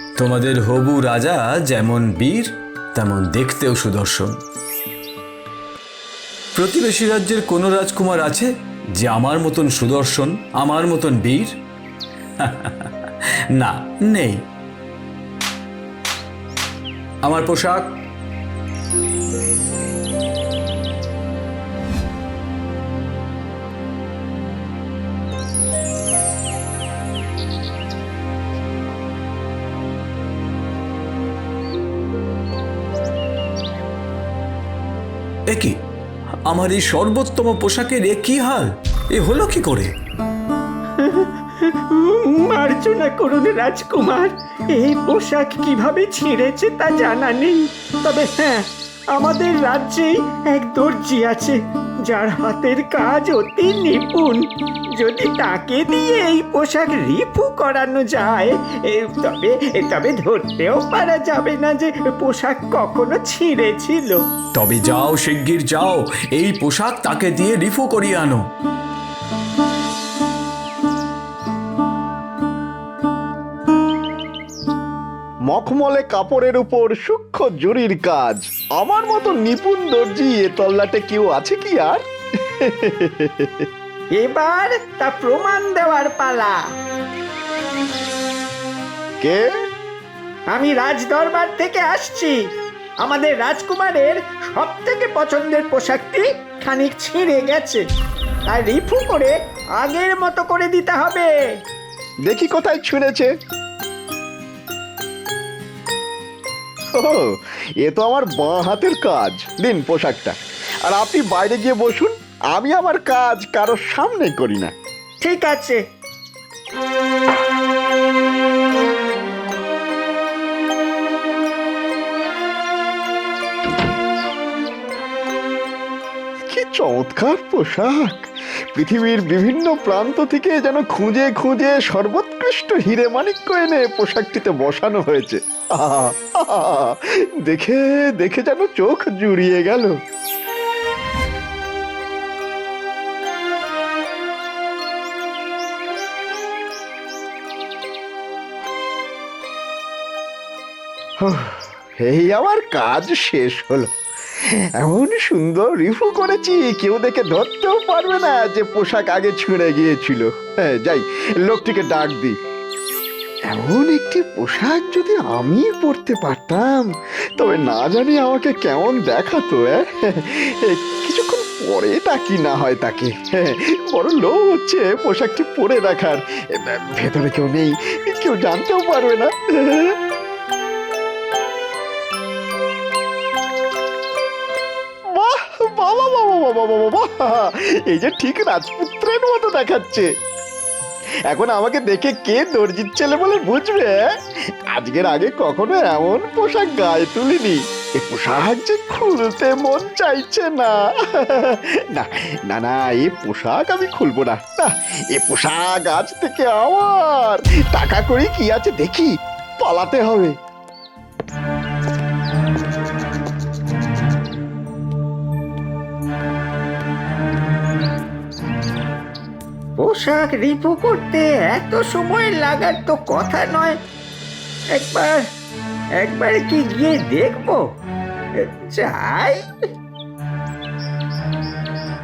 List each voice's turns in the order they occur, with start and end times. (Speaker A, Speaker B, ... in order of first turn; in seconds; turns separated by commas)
Speaker A: 0.2-4.3, Speaker A: 6.5-11.5, Speaker A: 12.4-12.9, Speaker A: 13.6-14.4, Speaker A: 17.2-17.9, Speaker A: 35.5-35.7, Speaker A: 36.5-39.9, Speaker B: 41.0-54.5, Speaker B: 55.0-64.2, Speaker A: 64.6-68.4, Speaker C: 75.5-82.0, Speaker C: 82.5-83.7, Speaker B: 84.1-86.6, Speaker C: 89.2-89.5, Speaker B: 90.5-92.4, Speaker B: 93.0-97.8, Speaker B: 98.5-101.3, Speaker C: 102.2-103.3, Speaker C: 107.0-114.7, Speaker B: 115.2-115.8, Speaker C: 126.5-139.9, Speaker C: 151.2-153.9, Speaker C: 154.8-162.4, Speaker C: 163.5-179.9, Speaker C: 185.1-190.1, Speaker C: 191.3-194.0, Speaker C: 194.7-209.1, Speaker C: 209.6-210.3, Speaker B: 219.8-223.8, Speaker B: 224.7-225.2, Speaker B: 226.0-227.6, Speaker B: 228.4-229.4